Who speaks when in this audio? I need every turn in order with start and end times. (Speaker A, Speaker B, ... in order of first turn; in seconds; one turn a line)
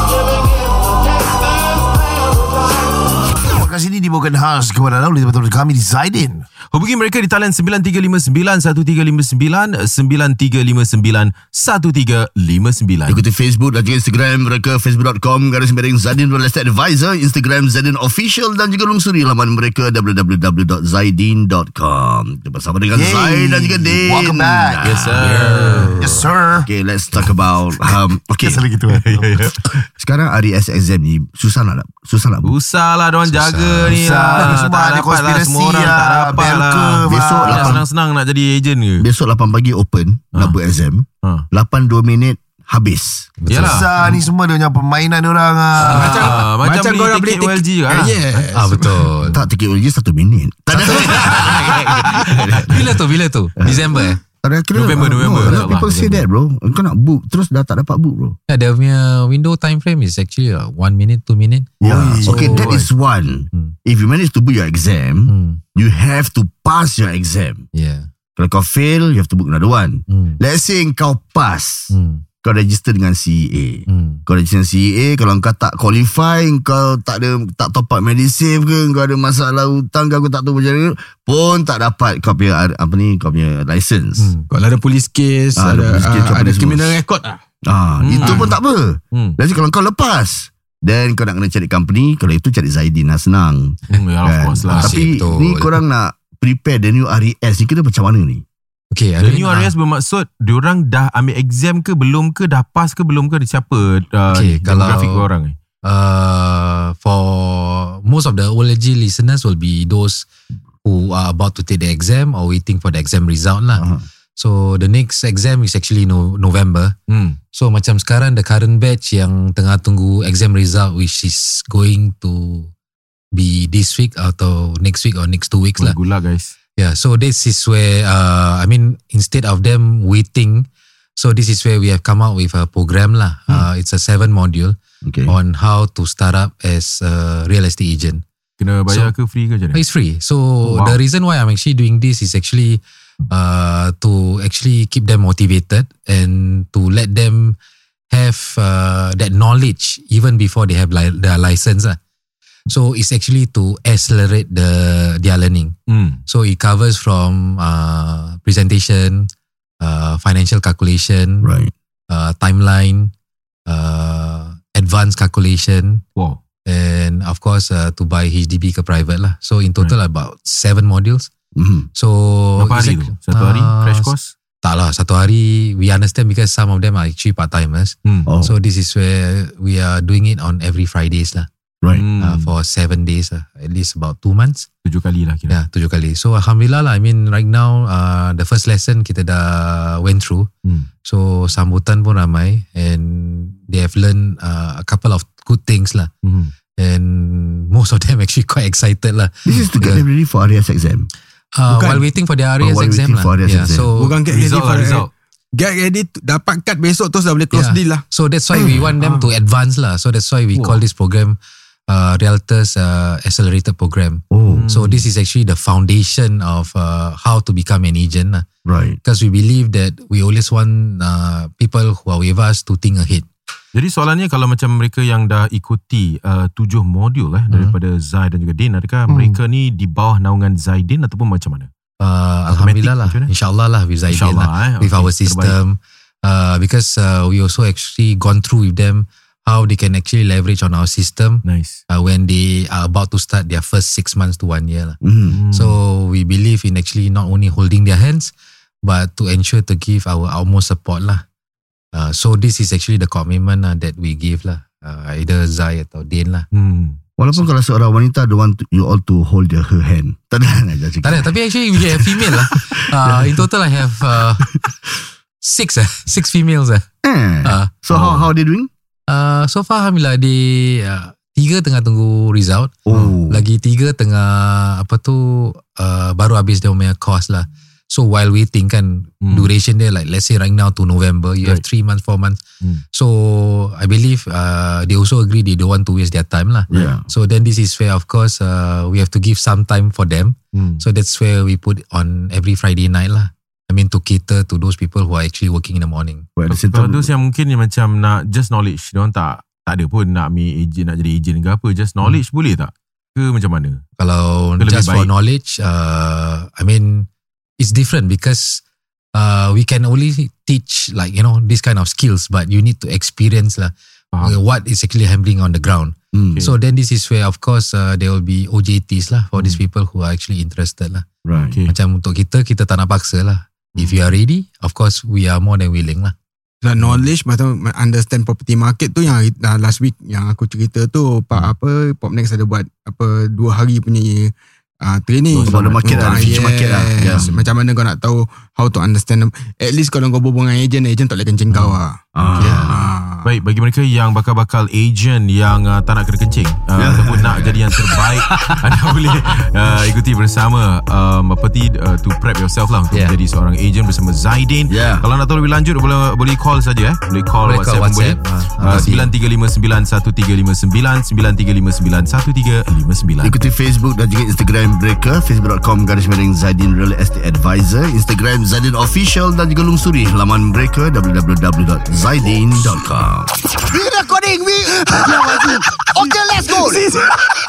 Speaker A: 3.4-6.5
Speaker B: 6.7-13.2
Speaker C: 13.1-25.3
Speaker A: 22.9-24.9
Speaker B: 24.8-26.1
Speaker D: 25.1-26.2
Speaker A: 26.0-26.7
Speaker C: 26.7-28.6
Speaker A: 28.4-29.5
Speaker B: 28.9-29.8
Speaker C: 30.0-32.5
Speaker B: 32.4-39.1
Speaker D: 33.3-34.5
Speaker A: 33.9-37.8
Speaker C: 37.0-37.8
Speaker C: 39.0-43.3
Speaker D: 43.4-43.9
Speaker B: 43.5-43.9
Speaker A: 43.6-46.3
Speaker B: 45.8-48.5
Speaker E: 45.8-49.1
Speaker D: 48.5-49.4
Speaker C: 49.3-53.0
Speaker B: 50.9-53.0
Speaker D: 51.2-54.2
Speaker C: 53.6-58.4
Speaker B: 54.7-56.3
Speaker D: 55.4-55.6
Speaker D: 58.5-62.8
Speaker A: 61.8-62.7
Speaker C: 61.8-67.7
Speaker B: 62.4-62.9
Speaker D: 65.3-65.6
Speaker D: 67.7-68.1
Speaker C: 68.4-84.3
Speaker D: 70.1-70.4
Speaker D: 71.9-72.2
Speaker D: 73.9-74.2
Speaker D: 84.2-84.5
Speaker E: 84.5-87.4
Speaker C: 85.6-87.0
Speaker C: 87.7-98.4
Speaker B: 88.0-88.6
Speaker B: 89.1-89.4
Speaker B: 93.9-95.1
Speaker D: 94.7-95.8
Speaker D: 98.9-99.7
Speaker B: 99.2-105.6
Speaker D: 104.3-105.3
Speaker D: 105.8-110.3
Speaker D: 110.8-116.9
Speaker C: 113.8-114.0
Speaker B: 117.1-117.4
Speaker D: 117.5-122.7
Speaker D: 123.3-126.0
Speaker B: 125.8-126.5
Speaker D: 126.8-138.2
Speaker C: 135.1-135.3
Speaker B: 138.6-139.8
Speaker D: 139.7-147.6
Speaker B: 140.6-141.0
Speaker D: 148.1-152.0
Speaker D: 152.7-155.7
Speaker B: 155.9-156.2
Speaker D: 156.3-159.3
Speaker D: 159.8-161.5
Speaker C: 161.4-161.7
Speaker D: 162.1-163.1
Speaker D: 163.7-166.0
Speaker D: 166.7-171.3
Speaker C: 171.6-171.9
Speaker D: 171.9-181.5
Speaker B: 172.6-174.3
Speaker C: 178.3-178.6
Speaker B: 181.9-182.5
Speaker D: 182.2-184.7
Speaker B: 184.8-185.6
Speaker D: 185.5-190.5
Speaker D: 191.0-196.1
Speaker B: 196.2-196.5
Speaker D: 196.8-200.1
Speaker C: 199.5-201.1
Speaker D: 201.5-204.2
Speaker E: 201.7-202.1
Speaker C: 202.6-203.9
Speaker E: 203.9-209.3
Speaker B: 204.3-205.1
Speaker D: 207.5-218.5
Speaker C: 208.5-208.9
Speaker B: 210.5-210.8
Speaker C: 214.3-214.6
Speaker B: 214.5-215.1
Speaker C: 218.7-219.0
Speaker D: 219.0-223.3
Speaker B: 223.7-231.7
Speaker A: 229.1-229.4
Speaker D: 232.0-248.3
Speaker B: 232.5-233.3
Speaker B: 234.1-235.6
Speaker B: 241.4-241.8
Speaker C: 245.0-245.4
Speaker B: 245.3-245.8
Speaker D: 248.8-251.2
Speaker D: 251.9-256.4
Speaker B: 256.5-257.0
Speaker C: 257.2-263.5
Speaker D: 261.0-264.5
Speaker D: 265.4-266.9
Speaker C: 267.0-268.7
Speaker D: 267.4-267.7
Speaker B: 267.9-268.2
Speaker D: 269.1-282.4
Speaker C: 272.9-273.4
Speaker B: 279.2-279.5
Speaker D: 282.9-296.3
Speaker C: 286.7-287.1
Speaker B: 290.5-290.8
Speaker C: 296.4-297.1
Speaker B: 296.5-303.8
Speaker D: 304.0-307.1
Speaker B: 304.6-305.1
Speaker D: 307.6-308.6
Speaker D: 309.1-321.1
Speaker C: 316.1-316.4
Speaker C: 321.3-321.6
Speaker D: 321.6-326.1
Speaker E: 326.6-343.3
Speaker B: 335.4-336.4
Speaker C: 335.4-337.3
Speaker B: 337.1-337.4
Speaker C: 342.1-342.9
Speaker D: 342.4-342.7
Speaker B: 343.2-363.4
Speaker C: 346.8-347.7
Speaker D: 352.9-353.2
Speaker C: 354.7-355.1
Speaker D: 357.4-359.1
Speaker C: 363.2-373.4
Speaker F: 373.7-375.5
Speaker A: 375.1-375.5
Speaker C: 375.9-376.9
Speaker F: 376.0-377.0